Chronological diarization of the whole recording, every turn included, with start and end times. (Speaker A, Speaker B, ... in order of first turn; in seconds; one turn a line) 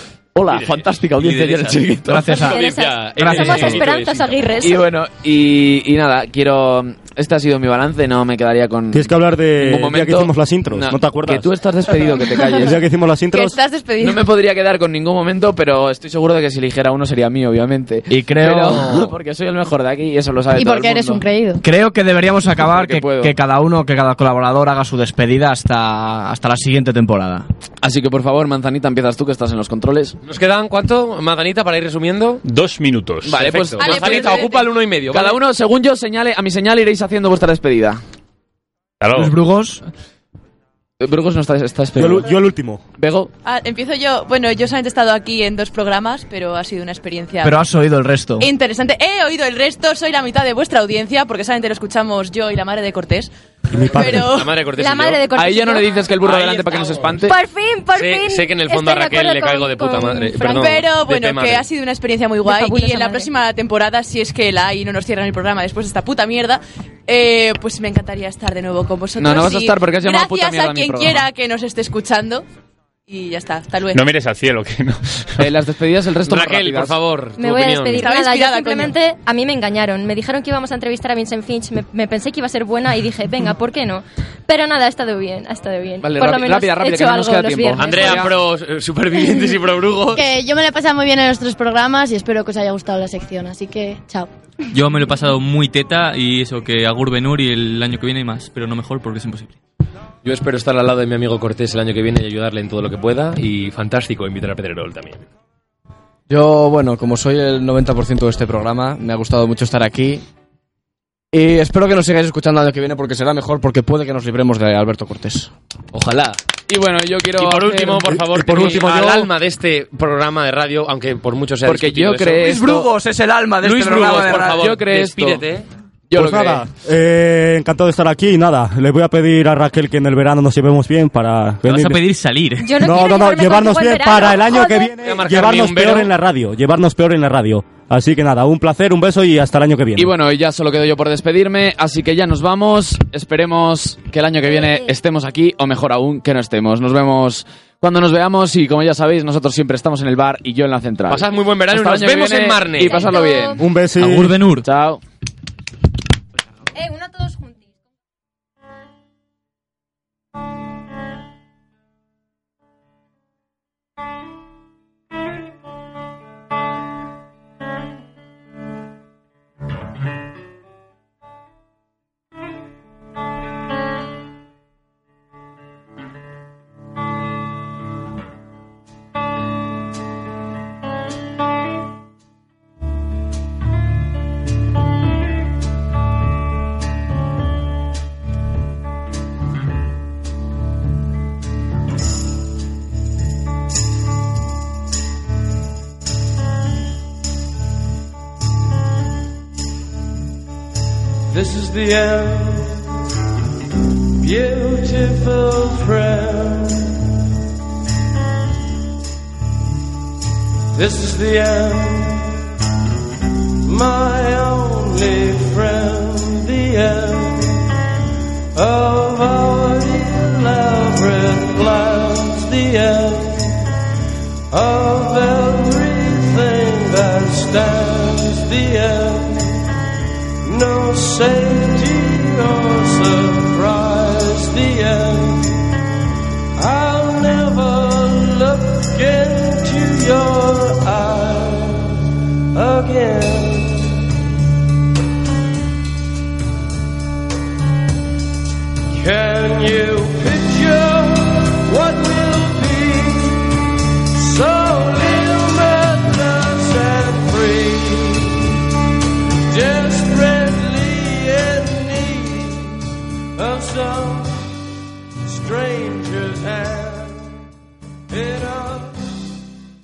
Speaker A: 0.3-2.4
Speaker B: 0.5-4.5
Speaker C: 2.0-3.9
Speaker D: 2.3-4.8
Speaker A: 3.3-3.8
Speaker A: 4.6-12.8
Speaker E: 8.9-11.4
Speaker E: 12.6-13.6
Speaker F: 13.3-14.2
Speaker A: 14.0-21.2
Speaker C: 18.1-19.1
Speaker G: 20.6-21.6
Speaker C: 21.6-27.5
Speaker A: 22.6-23.3
Speaker A: 27.8-30.2
Speaker B: 30.2-32.4
Speaker H: 32.4-33.4
Speaker A: 33.2-34.6
Speaker B: 33.4-35.4
Speaker F: 33.8-34.7
Speaker A: 35.1-38.0
Speaker H: 39.0-39.3
Speaker C: 39.1-39.8
Speaker A: 41.0-42.4
Speaker E: 42.0-42.8
Speaker A: 43.0-43.3
Speaker F: 43.4-47.6
Speaker C: 47.4-48.5
Speaker F: 48.4-53.3
Speaker E: 53.7-54.3
Speaker F: 53.9-54.5
Speaker B: 54.0-55.2
Speaker D: 54.8-55.9
Speaker A: 55.4-57.4
Speaker B: 56.2-57.0
Speaker D: 57.2-60.8
Speaker B: 57.9-61.6
Speaker F: 60.5-72.4
Speaker D: 62.4-63.3
Speaker A: 69.2-71.3
Speaker F: 73.1-74.0
Speaker H: 73.9-75.4
Speaker A: 75.4-76.9
Speaker B: 76.3-78.1
Speaker D: 77.4-88.3
Speaker F: 78.0-78.9
Speaker A: 86.0-88.3
Speaker B: 87.8-90.3
Speaker G: 90.1-94.3
Speaker I: 94.7-99.6
Speaker B: 100.2-105.2
Speaker C: 106.3-110.2
Speaker C: 111.3-115.5
Speaker B: 115.9-116.4
Speaker A: 116.7-118.8
Speaker B: 117.3-122.6
Speaker E: 118.2-119.3
Speaker A: 121.6-122.9
Speaker C: 122.4-124.7
Speaker B: 123.6-125.7
Speaker A: 124.4-125.4
Speaker A: 126.1-126.7
Speaker E: 126.1-132.0
Speaker I: 131.6-132.8
Speaker D: 132.6-134.9
Speaker E: 132.8-140.1
Speaker B: 135.0-136.1
Speaker A: 139.9-153.7
Speaker B: 151.1-153.2
Speaker D: 152.8-153.6
Speaker E: 153.6-154.5
Speaker I: 153.9-154.7
Speaker A: 154.5-155.0
Speaker D: 156.8-157.6
Speaker J: 201.3-202.9
Speaker J: 204.2-207.0
Speaker J: 210.7-212.4
Speaker J: 213.6-217.7
Speaker J: 218.6-223.7
Speaker J: 224.5-229.7
Speaker J: 230.4-235.7
Speaker J: 236.6-242.0
Speaker J: 242.5-244.1
Speaker J: 248.9-258.6
Speaker J: 259.5-264.5
Speaker J: 265.2-267.4
Speaker J: 268.1-269.2